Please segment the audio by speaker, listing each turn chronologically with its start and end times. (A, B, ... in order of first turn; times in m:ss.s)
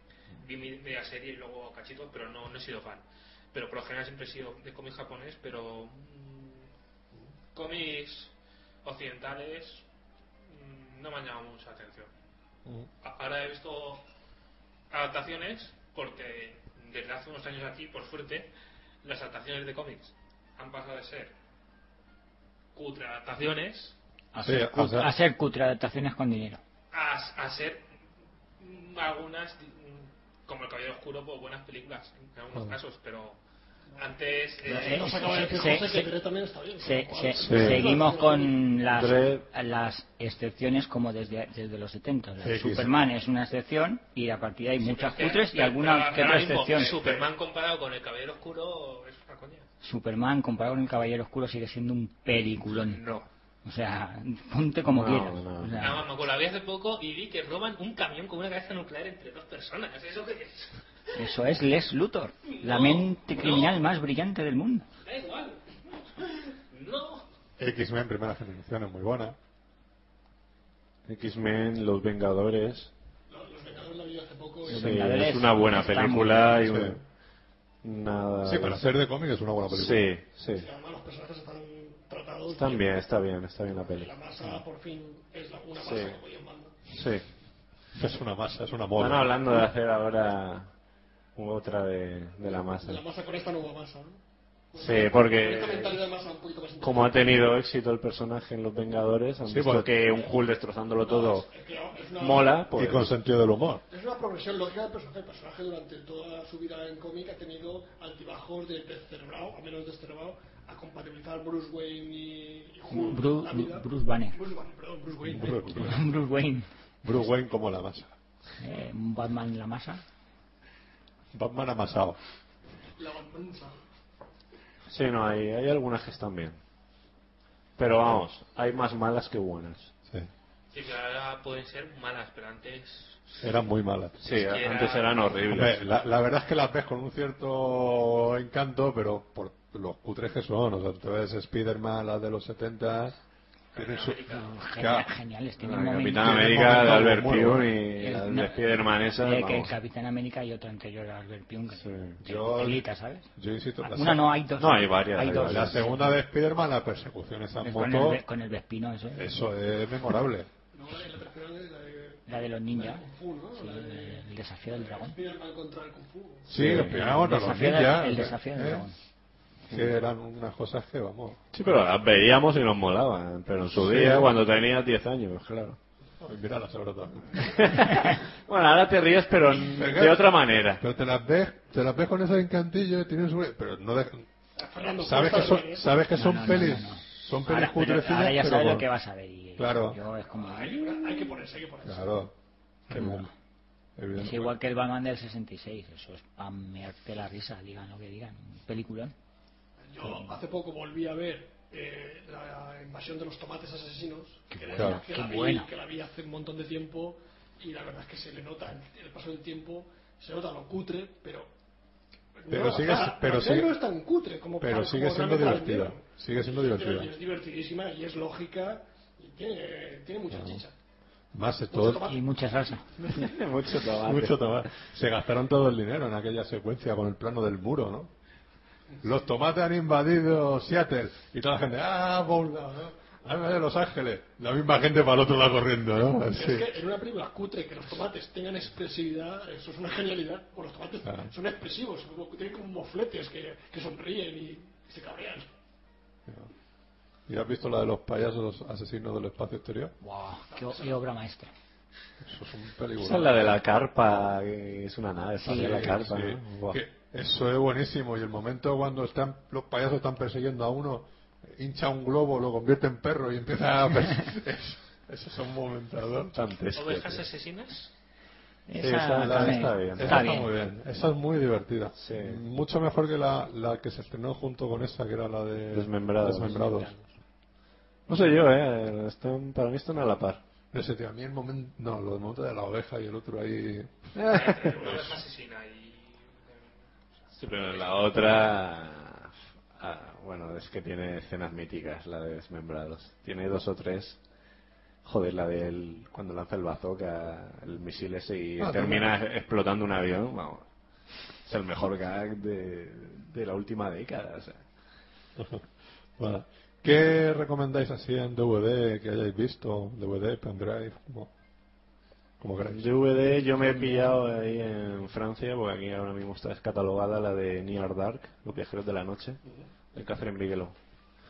0:00.4-0:06.7 A
0:07.6-0:08.3 A
0:08.8-0:09.8 A
0:10.5-0:12.1 A
0:13.0-0:14.0 A
0:14.9-0:18.5 A
0:19.0-0:21.3 A
0:22.8-0:24.0 A
0:24.3-0:26.6 B
0:24.4-0:25.1 C
0:26.9-0:27.8 A
0:28.6-0:33.4 A
0:34.0-0:35.2 A
0:34.6-0:38.7 D
0:34.7-0:36.1 B
0:36.8-0:47.1 B
0:37.4-0:38.0 E
0:38.9-0:39.4 E
0:42.4-0:43.0 C
0:44.8-0:49.6 A
0:49.8-0:53.0 B
0:52.7-0:53.3 A
0:53.6-0:56.0 B
0:54.9-0:56.0 E
0:55.8-1:01.2 A
1:01.2-1:04.9 B
1:02.5-1:03.8 A
1:05.0-1:07.3 A
1:07.6-1:09.4 C
1:11.1-1:12.9 E
1:13.3-1:15.0 D
1:14.7-1:16.6 B
1:14.7-1:17.0 E
1:16.6-1:17.0 C
1:17.8-1:18.8 E
1:18.4-1:20.1 C
1:19.7-1:20.7 E
1:20.5-1:23.0 D
1:22.5-1:24.1 E
1:23.8-1:26.8 D
1:25.8-1:26.2 E
1:26.9-1:27.3 E
1:27.9-1:29.6 C
1:29.0-1:30.7 E
1:31.4-1:33.0 E
1:32.4-1:34.2 D
1:34.7-1:37.4 D
1:34.8-1:36.0 E
1:36.8-1:41.5 E
1:39.5-1:39.9 C
1:40.1-1:40.4 D
1:41.0-1:42.7 D
1:42.2-1:43.1 E
1:42.7-1:43.8 C
1:43.9-1:56.0 D
1:52.9-1:54.4 B
1:55.3-1:56.0 C
1:55.7-1:56.7 B
1:57.0-1:58.1 C
1:58.6-2:00.0 B
2:01.3-2:02.2 C
2:03.0-2:03.8 D
2:04.9-2:06.6 E
2:07.8-2:09.9 E
2:10.7-2:13.6 A
2:13.4-2:14.2 C
2:14.2-2:15.8 E
2:14.3-2:15.4 A
2:15.5-2:23.2 C
2:23.7-2:24.6 A
2:23.8-2:24.2 C
2:24.3-2:26.4 B
2:24.8-2:25.1 C
2:25.6-2:29.7 E
2:26.2-2:27.7 C
2:28.0-2:28.6 B
2:29.2-2:33.3 B
2:31.8-2:32.2 E
2:32.2-2:32.8 C
2:33.4-2:34.3 C
2:33.8-2:36.2 B
2:34.6-2:35.8 E
2:35.4-2:38.2 C
2:37.6-2:39.3 B
2:39.2-2:40.5 C
2:40.7-2:46.6 D
2:42.3-2:43.0 B
2:43.6-2:45.2 B
2:46.5-2:47.2 E
2:46.5-2:48.9 C
2:46.7-2:49.0 B
2:49.7-2:51.4 C
2:51.5-2:55.8 E
2:53.7-2:54.3 C
2:56.2-2:57.6 C
2:57.4-3:00.8 E
2:59.7-3:04.3 C
3:04.6-3:06.0 D
3:05.0-3:08.9 C
3:06.1-3:11.2 B
3:09.6-3:10.0 C
3:10.3-3:12.3 D
3:11.8-3:12.3 C
3:12.9-3:13.3 C
3:12.9-3:13.3 B
3:14.0-3:14.5 C
3:14.2-3:19.1 B
3:19.8-3:31.5 D
3:24.5-3:25.7 B
3:24.8-3:25.0 C
3:32.4-3:40.7 D
3:32.5-3:33.7 C
3:34.6-3:37.1 C
3:40.3-3:40.6 C
3:41.3-3:42.2 C
3:41.7-3:42.2 D
3:42.0-3:42.8 B
3:43.0-3:44.7 E
3:43.8-3:48.1 C
3:49.0-3:56.7 C
3:56.3-4:05.5 D
4:01.0-4:01.3 C
4:07.3-4:09.9 C
4:10.0-4:11.5 B
4:10.5-4:11.0 D
4:12.2-4:13.4 C
4:13.0-4:16.8 E
4:15.4-4:15.9 B
4:15.4-4:26.4 C
4:26.3-4:27.3 E
4:26.8-4:27.9 A
4:28.7-4:30.5 B
4:28.8-4:30.4 E
4:29.2-4:36.9 C
4:32.0-4:32.4 E
4:35.7-4:36.6 E
4:36.4-4:37.1 B
4:38.1-4:40.4 E
4:40.7-4:44.1 C
4:44.2-4:44.8 E
4:44.3-4:46.7 A
4:44.8-4:45.2 C
4:47.4-4:54.2 E
4:47.5-4:48.4 A
4:55.0-5:00.7 E
4:58.6-4:59.1 C
5:01.4-5:04.7 E
5:05.4-5:05.6 C
5:06.2-5:11.3 C
5:12.4-5:12.8 C
5:12.7-5:19.4 E
5:19.9-5:20.8 E